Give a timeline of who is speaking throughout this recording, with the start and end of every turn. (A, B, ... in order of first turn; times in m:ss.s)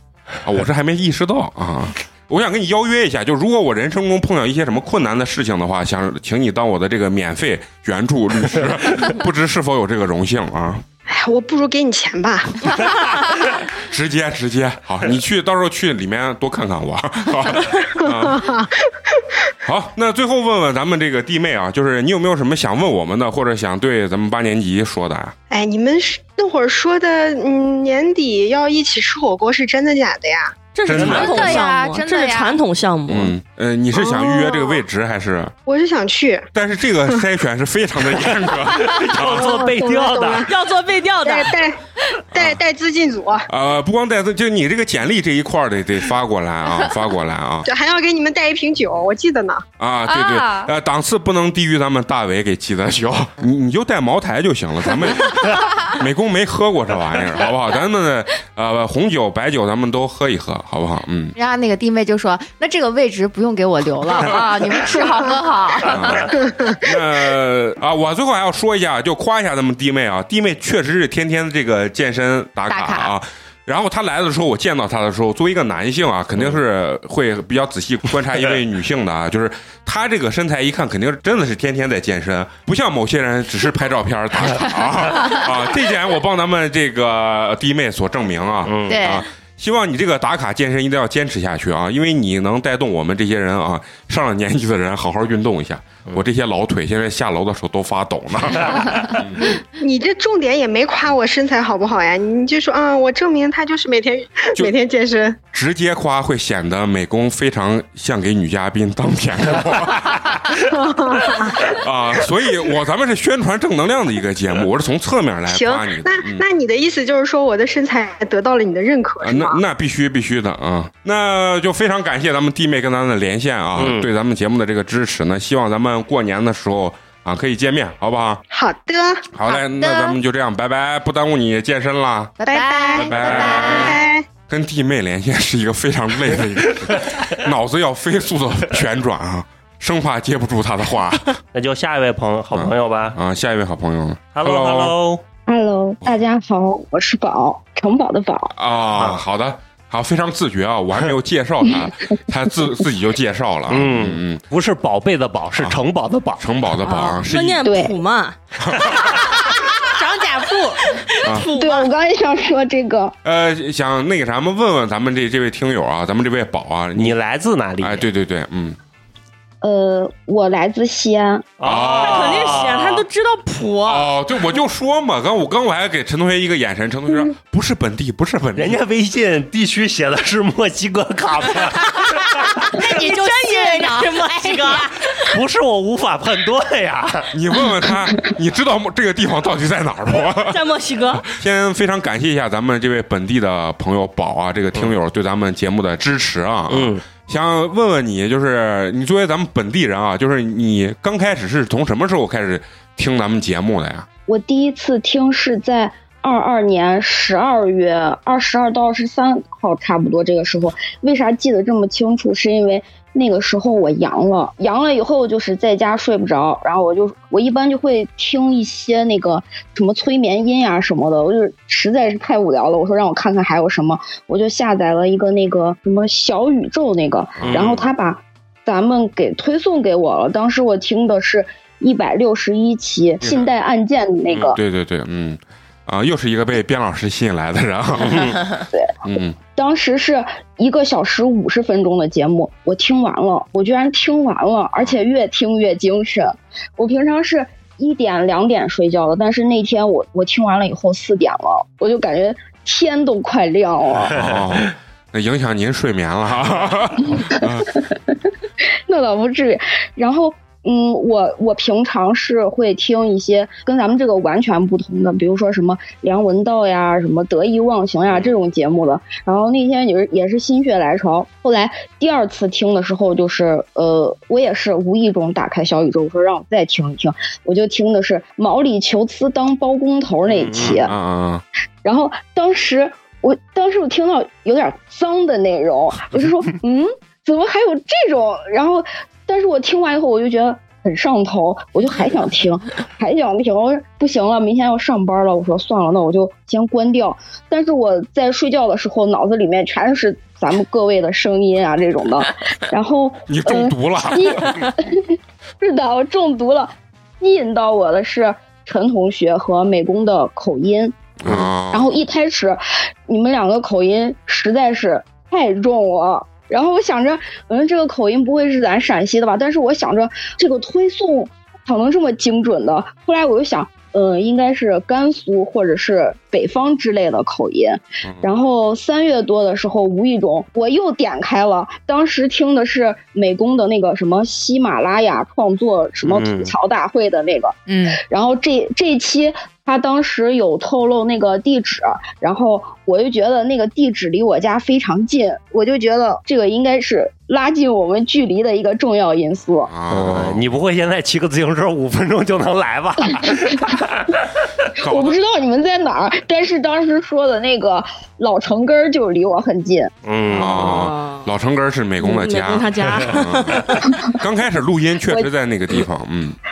0:00.4-0:10.8 A
0:11.1-0:13.0 B
0:13.9-0:18.4 A
0:18.3-0:19.2 B
0:19.6-0:25.3 A
0:25.5-0:30.6 B
0:30.8-0:33.3 C
0:30.9-0:31.6 A
0:30.9-0:31.4 D
0:31.0-0:32.6 E
0:33.1-0:35.5 A
0:34.0-0:34.8 B
0:35.7-0:36.5 B
0:36.5-0:39.6 A
0:38.8-0:40.5 D
0:39.1-0:40.5 B
0:40.4-0:41.6 C
0:41.2-0:41.8 B
0:42.3-0:43.5 B
0:42.3-0:42.6 A
0:43.5-0:47.7 A
0:47.7-0:49.6 B
0:49.8-1:01.4 A
0:50.2-0:50.6 E
1:01.4-1:06.2 E
1:04.2-1:04.8 A
1:05.9-1:39.6 A
1:06.4-1:06.7 B
1:12.7-1:13.1 E
1:28.6-1:29.0 D
1:28.9-1:29.2 E
1:39.8-1:45.4 B
1:45.5-1:50.5 A
1:50.6-1:51.7 B
1:51.6-1:56.4 A
1:55.5-1:59.6 B
1:59.2-2:08.4 A
2:03.8-2:04.1 D
2:08.5-2:09.3 B
2:09.4-2:12.4 A
2:09.5-2:10.2 E
2:12.4-2:14.0 E
2:12.4-2:14.3 B
2:13.0-2:14.0 A
2:14.5-2:21.4 A
2:21.5-2:23.2 D
2:22.5-2:25.0 A
2:24.3-2:25.2 D
2:25.5-2:28.5 F
2:28.6-2:34.4 A
2:33.7-2:36.4 D
2:36.4-2:37.6 A
2:36.8-2:38.4 C
2:37.6-2:37.9 F
2:39.8-2:40.8 G
2:41.1-2:41.9 C
2:41.2-2:41.5 A
2:41.6-2:43.2 F
2:43.2-2:47.2 A
2:47.0-2:48.1 D
2:47.8-2:48.8 A
2:49.6-2:51.5 F
2:51.6-2:53.0 D
2:51.6-2:52.6 A
2:51.9-2:54.1 C
2:53.8-2:58.8 A
2:58.6-3:02.7 D
3:02.7-3:05.4 C
3:02.8-3:04.9 G
3:05.3-3:07.3 D
3:07.3-3:10.6 A
3:10.5-3:11.3 C
3:11.2-3:24.1 A
3:16.7-3:17.0 D
3:24.3-3:54.6 F
3:47.4-3:47.9 A
3:47.4-3:47.8 D
3:54.5-3:58.4 A
3:58.0-3:58.4 D
3:59.0-3:59.4 A
3:59.5-4:14.2 F
4:14.2-4:17.8 A
4:18.9-4:40.9 F
4:40.3-4:40.9 D
4:40.6-4:41.4 A
4:41.8-5:11.0 F
5:03.3-5:04.6 A
5:11.2-5:12.0 A
5:11.7-5:37.6 F
5:28.0-5:28.3 A
5:36.0-5:36.5 D
5:37.7-5:38.0 G
5:38.1-5:49.7 F
5:49.7-5:50.4 A
5:49.9-5:53.9 D
5:54.8-5:55.2 A
5:54.8-5:59.9 F
6:00.0-6:00.9 D
6:00.3-6:01.3 C
6:00.3-6:06.4 A
6:02.0-6:03.9 C